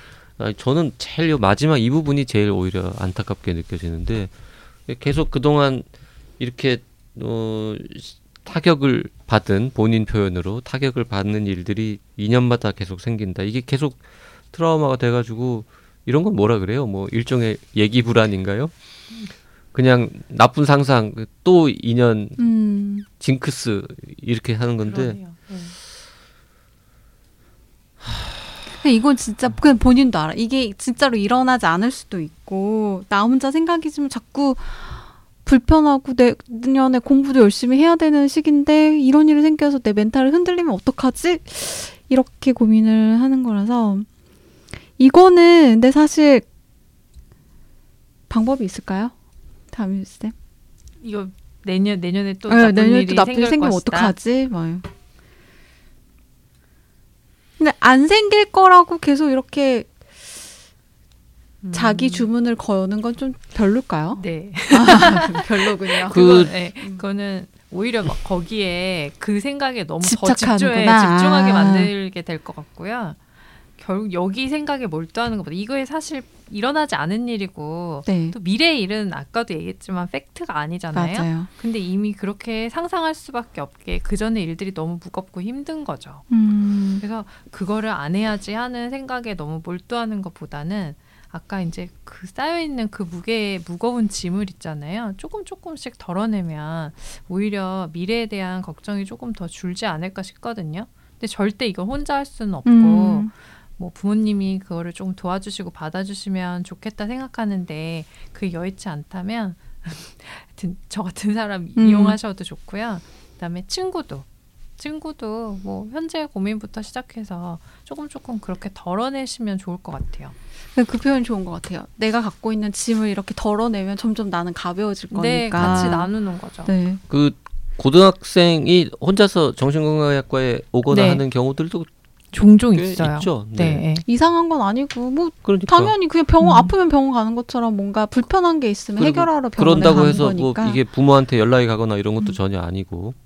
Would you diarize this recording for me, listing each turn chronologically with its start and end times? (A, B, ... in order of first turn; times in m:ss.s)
0:00.4-0:04.3 A
0:04.9-0:05.9 A
0:06.4-0:18.7 A
0:19.7-0:22.4 A
0:22.4-0:23.1 B
0:23.2-0:25.2 A
0:24.8-0:25.8 C
0:28.0-0:28.6 A
0:28.7-0:44.1 B
0:45.0-0:46.5 B
0:48.3-0:49.1 B
0:49.7-0:50.3 B
0:51.0-0:54.2 C
0:52.5-0:54.9 B
0:57.6-1:00.3 B
1:01.6-1:02.3 C
1:01.7-1:07.0 B
1:04.2-1:13.2 C
1:06.1-1:06.5 A
1:10.0-1:11.9 B
1:13.8-1:26.2 C
1:18.1-1:18.4 B
1:20.9-1:21.5 B
1:26.3-1:27.0 B
1:27.0-1:54.3 C
1:42.6-1:43.3 B
1:51.8-1:52.2 B
1:54.8-2:00.4 C
2:00.7-2:06.1 B
2:05.1-2:06.7 C
2:05.6-2:06.0 A
2:06.6-2:07.0 B
2:07.1-2:11.9 A
2:10.9-2:11.2 C
2:12.3-2:14.0 C
2:12.7-2:13.8 A
2:14.1-2:20.8 B
2:15.4-2:16.0 A
2:16.4-2:16.7 C
2:19.0-2:23.2 A